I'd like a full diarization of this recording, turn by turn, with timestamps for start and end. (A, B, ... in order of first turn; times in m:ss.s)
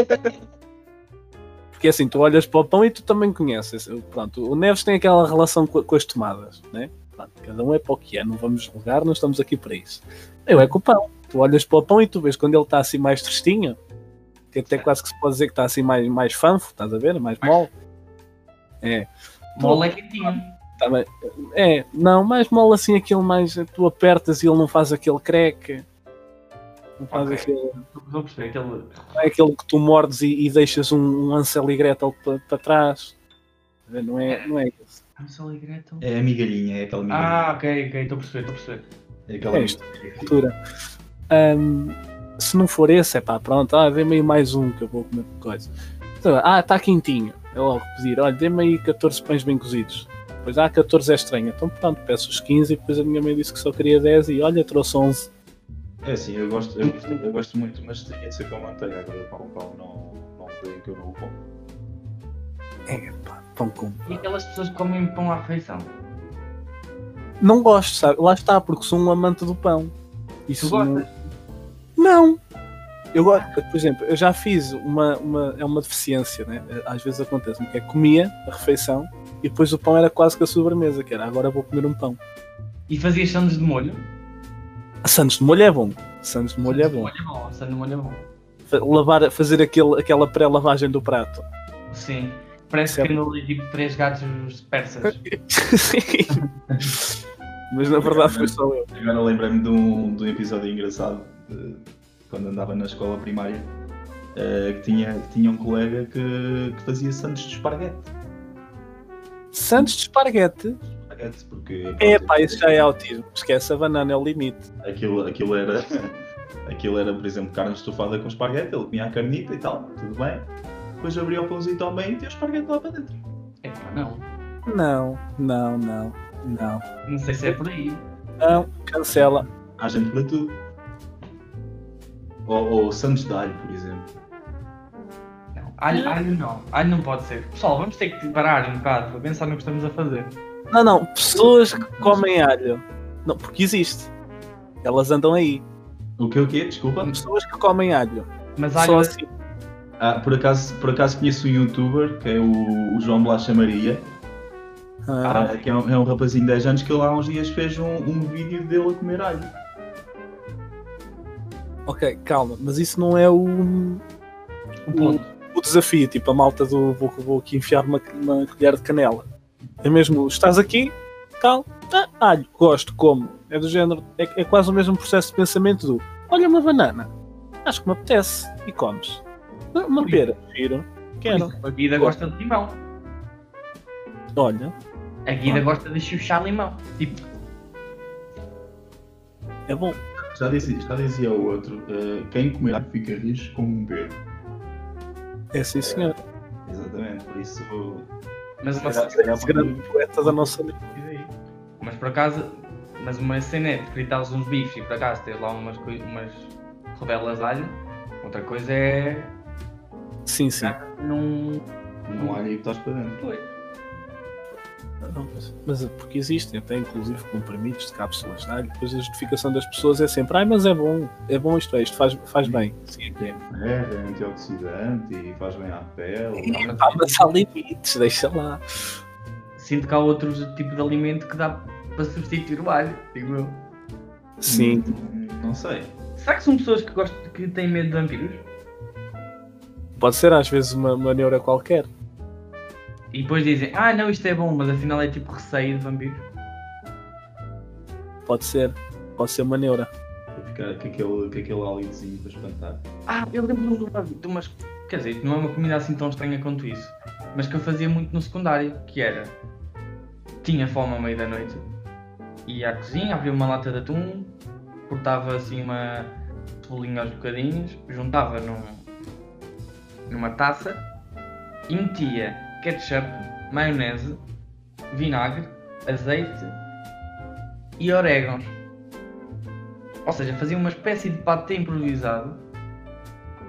0:01.7-0:13.8 A
0:14.5-0:17.7 A
0:17.4-0:17.7 B
0:18.8-0:25.8 A
0:19.6-0:20.5 B
0:27.0-0:27.8 A
0:27.1-0:29.2 B
0:29.2-0:33.2 A
0:33.9-0:35.0 A
0:34.2-0:34.5 B
0:35.2-0:36.0 B
0:36.0-0:37.5 C
0:37.1-0:38.9 B
0:39.3-0:40.4 C
0:39.5-0:40.5 A
0:41.3-0:55.3 A
0:56.0-1:01.4 C
0:56.8-0:57.2 B
1:02.9-1:04.2 A
1:04.1-1:05.9 B
1:07.4-1:09.9 A
1:10.5-1:11.1 A
1:10.6-1:11.2 B
1:12.0-1:12.4 A
1:13.1-1:22.2 A
1:22.9-1:24.1 B
1:25.0-1:27.1 A
1:26.6-1:28.3 B
1:28.7-1:31.4 A
1:31.9-1:35.2 B
1:32.9-1:33.1 A
1:35.0-1:36.4 A
1:37.7-1:38.9 A
1:38.0-1:43.7 C
1:44.3-1:48.1 C
1:49.5-1:50.8 A
1:50.9-1:52.9 C
1:52.0-1:54.6 A
1:54.8-2:03.2 C
2:03.6-2:04.2 B
2:04.6-2:06.8 A
2:07.0-2:08.0 B
2:08.4-2:09.5 A
2:09.8-2:10.6 C
2:12.4-2:14.1 C
2:15.5-2:20.4 B
2:15.9-2:16.2 A
2:20.7-2:24.1 A
2:21.3-2:22.2 C
2:24.8-2:25.6 A
2:26.2-2:27.1 C
2:27.1-2:29.3 A
2:28.6-2:29.2 B
2:30.0-2:34.1 C
2:35.0-2:35.4 A
2:35.2-2:35.6 B
2:35.3-2:39.5 C
2:41.8-2:44.0 A
2:44.9-2:45.3 B
2:44.9-2:49.3 A
2:49.8-2:57.1 A
2:57.6-3:02.1 A
3:00.0-3:00.2 B
3:01.3-3:02.8 B
3:04.4-3:04.7 A
3:05.2-3:07.2 B
3:09.7-3:10.0 A
3:10.3-3:14.2 C
3:15.5-3:16.2 A
3:15.8-3:16.1 C
3:16.6-3:18.1 C
3:18.6-3:19.4 B
3:18.8-3:21.3 C
3:19.1-3:20.9 A
3:21.8-3:29.3 B
3:30.2-3:30.8 A
3:30.6-3:31.6 B
3:32.0-3:33.2 C
3:32.2-3:32.4 B
3:33.2-3:33.5 B
3:35.0-3:43.2 A
3:42.4-3:46.8 C
3:46.4-3:48.6 A
3:46.5-3:47.3 B
3:49.6-3:53.6 B
3:54.4-3:54.8 A
3:54.5-3:55.9 C
3:56.2-3:58.4 B
4:00.0-4:01.9 A
4:03.1-4:06.3 B
4:08.2-4:09.9 A
4:10.3-4:12.8 C
4:13.1-4:19.4 B
4:20.4-4:21.6 B
4:22.4-4:24.3 B
4:24.9-4:28.9 B
4:30.1-4:30.9 B
4:31.7-4:34.2 B
4:34.9-4:36.5 B
4:37.8-4:38.6 B
4:40.0-4:42.4 B